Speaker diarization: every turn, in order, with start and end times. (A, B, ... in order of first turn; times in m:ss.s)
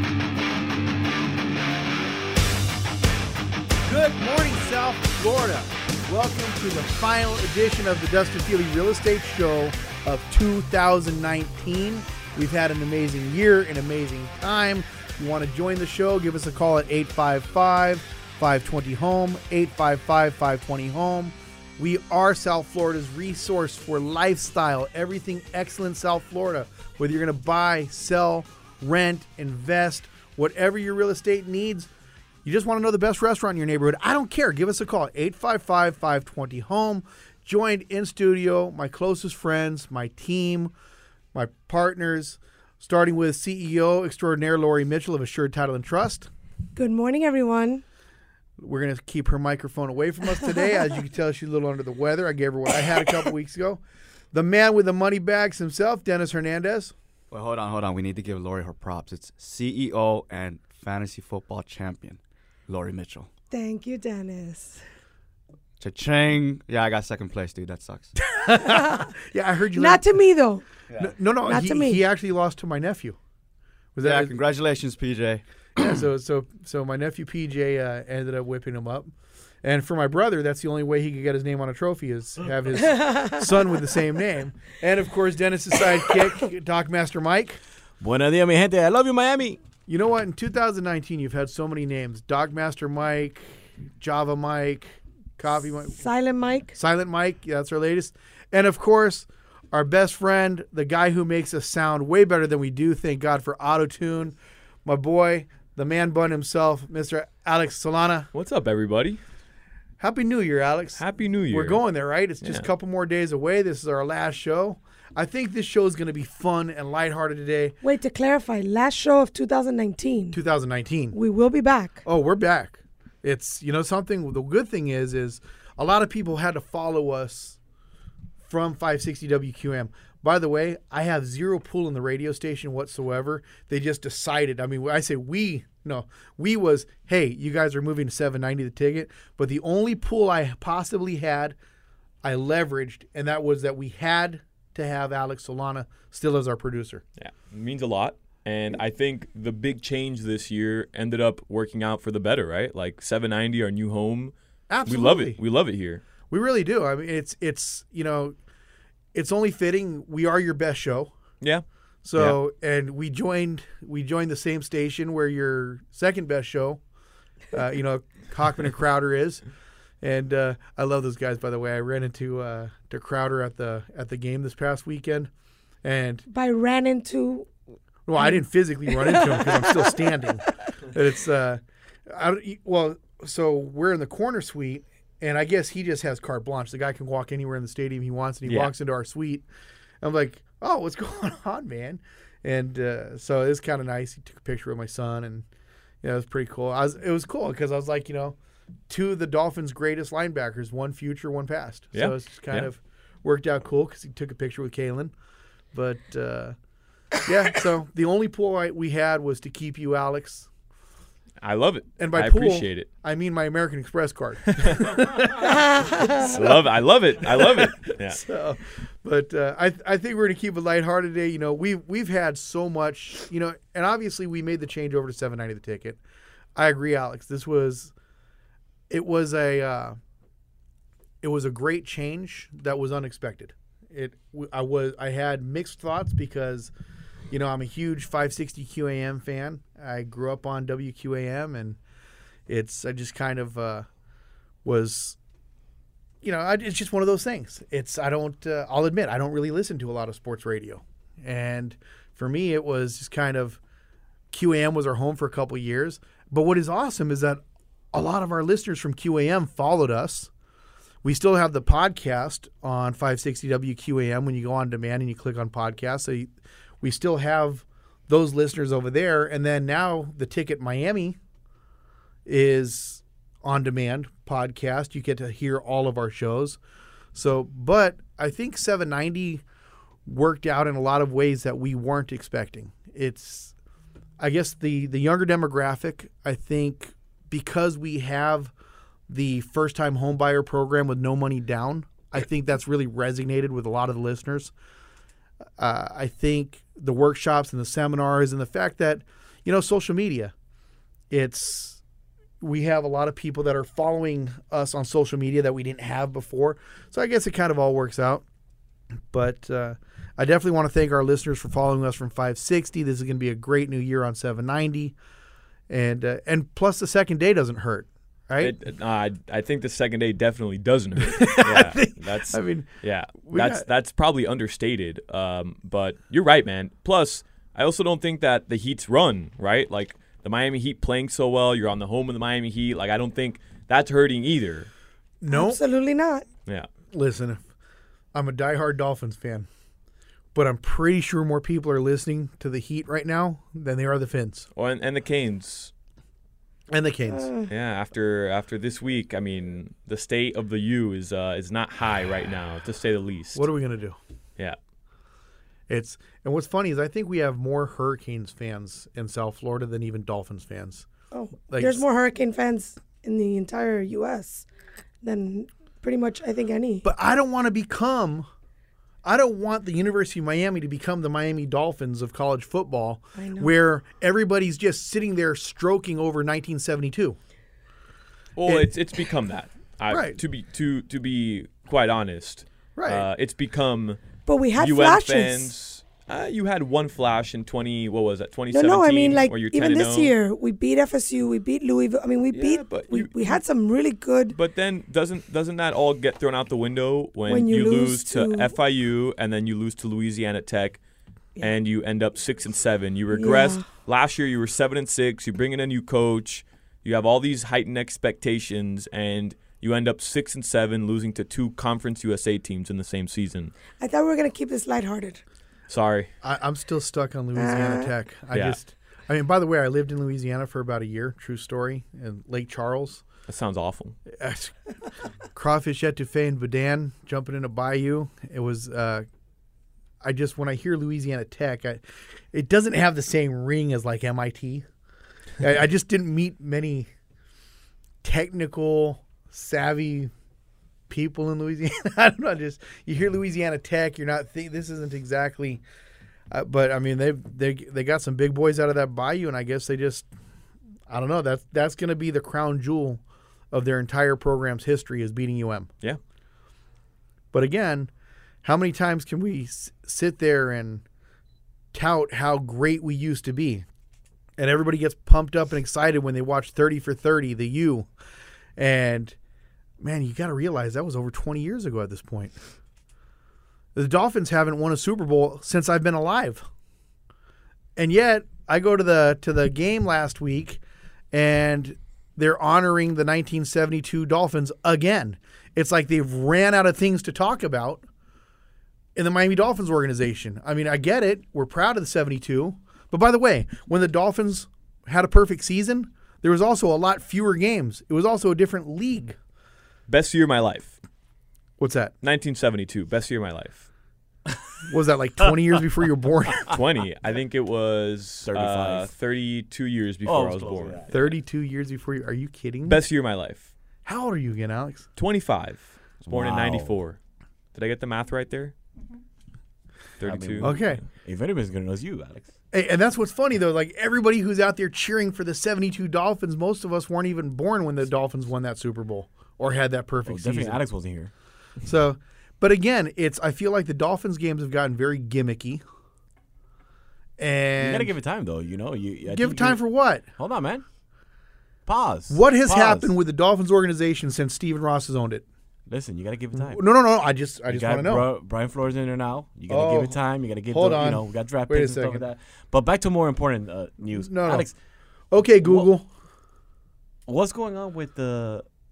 0:03.8-0:31.9 A
0:32.4-0:40.7 A
0:41.3-0:46.3 A
0:46.8-0:47.8 B
0:48.6-0:53.8 A
0:54.3-0:56.9 A
0:57.3-1:03.3 C
1:03.5-1:04.8 B
1:05.8-1:08.2 C
1:08.3-1:10.1 A
1:08.6-1:09.1 B
1:09.7-1:10.6 B
1:11.0-1:13.2 A
1:11.4-1:12.0 B
1:14.0-1:14.4 A
1:14.0-1:15.4 C
1:15.8-1:27.6 A
1:22.9-1:23.3 B
1:28.0-1:29.6 D
1:29.9-1:36.0 A
1:35.9-1:36.8 B
1:36.7-1:48.3 A
1:48.3-1:49.2 E
1:50.0-1:57.8 A
1:51.0-1:51.8 E
1:57.8-2:00.4 B
2:00.3-2:01.2 A
2:01.1-2:02.0 B
2:02.0-2:07.6 A
2:08.4-2:21.6 A
2:22.2-2:27.0 A
2:27.2-2:34.3 E
2:34.7-2:35.4 A
2:34.8-2:36.0 E
2:36.3-2:38.3 A
2:39.1-2:41.1 A
2:42.0-2:46.8 A
2:47.5-2:49.4 A
2:50.0-2:55.3 A
2:55.8-2:56.2 A
2:56.3-2:57.5 B
2:58.1-3:09.4 A
2:58.9-2:59.9 B
3:08.4-3:08.7 E
3:10.0-3:15.4 A
3:16.0-3:18.4 A
3:18.9-3:25.1 A
3:21.9-3:22.7 E
3:25.7-3:26.6 A
3:27.2-3:30.5 A
3:31.4-3:32.9 E
3:32.0-3:46.0 A
3:34.5-3:35.4 E
3:35.7-3:36.0 B
3:36.2-3:38.2 E
3:46.5-3:47.9 A
3:48.9-3:50.0 A
3:51.2-3:56.7 A
3:57.3-4:01.8 A
4:02.5-4:03.9 A
4:04.6-4:05.2 A
4:06.2-4:13.6 A
4:14.3-4:17.4 A
4:17.9-4:20.3 A
4:21.0-4:31.2 A
4:32.2-4:36.6 A
4:37.1-4:39.4 A
4:40.0-4:43.5 A
4:44.2-4:48.5 A
4:49.1-4:54.5 A
4:55.6-5:00.3 A
5:01.1-5:01.8 A
5:02.4-5:08.2 A
5:09.1-5:14.9 A
5:15.7-5:18.5 A
5:18.4-5:34.7 E
5:21.0-5:23.6 A
5:35.2-5:35.6 A
5:35.3-5:36.2 B
5:36.9-5:37.4 A
5:38.1-5:39.5 A
5:40.3-5:44.5 A
5:44.5-5:45.7 E
5:46.7-5:47.3 A
5:47.1-5:47.5 B
5:47.5-5:53.5 E
5:53.3-5:54.0 A
5:55.7-6:00.8 A
6:01.1-6:04.5 B
6:01.5-6:01.8 A
6:05.0-6:06.8 B
6:06.8-6:08.3 A
6:09.0-6:17.2 A
6:13.2-6:13.5 B
6:18.4-6:30.1 E
6:18.4-6:18.7 A
6:19.9-6:20.2 A
6:22.8-6:23.1 A
6:24.2-6:25.5 B
6:28.5-6:34.4 B
6:32.3-6:33.3 E
6:34.3-6:40.8 E
6:37.3-6:38.5 B
6:41.4-6:53.5 E
6:43.1-6:43.6 B
6:53.8-6:55.2 B
6:55.7-6:56.1 E
6:56.2-7:03.0 A
6:57.4-6:57.9 B
6:58.3-6:58.6 E
7:03.3-7:04.0 E
7:04.1-7:04.6 A
7:05.3-7:09.0 A
7:10.0-7:14.6 A
7:15.4-7:16.9 A
7:18.0-7:20.1 A
7:20.9-7:25.6 A
7:26.3-7:30.1 A
7:30.9-7:35.7 A
7:37.3-7:37.9 A
7:38.4-7:40.8 A
7:41.7-7:43.6 A
7:44.4-7:47.9 A
7:48.6-7:49.2 A
7:49.8-7:52.4 A
7:53.7-7:56.5 A
7:57.8-8:07.8 A
8:08.9-8:19.2 A
8:19.9-8:20.8 E
8:21.6-8:21.9 A
8:22.0-8:23.7 E
8:24.7-8:26.5 A
8:26.5-8:30.9 E
8:28.2-8:28.9 D
8:30.0-8:30.9 D
8:30.9-8:32.8 A
8:32.7-8:33.5 E
8:33.8-8:34.9 A
8:35.0-8:37.0 E
8:36.1-8:36.7 D
8:37.5-8:38.5 E
8:40.0-8:40.6 E
8:40.0-8:42.3 D
8:40.4-8:40.8 A
8:42.5-8:50.6 A
8:50.0-8:51.1 D
8:51.6-8:55.6 A
8:57.2-8:57.9 A
8:57.6-8:59.6 D
8:59.0-9:00.0 A
9:00.2-9:00.6 D
9:01.6-9:02.9 D
9:02.1-9:05.2 A
9:05.7-9:06.6 D
9:06.3-9:08.1 A
9:07.5-9:14.5 D
9:09.5-9:12.0 A
9:13.9-9:14.5 A
9:15.1-9:15.8 A
9:15.4-9:15.7 D
9:17.1-9:18.4 D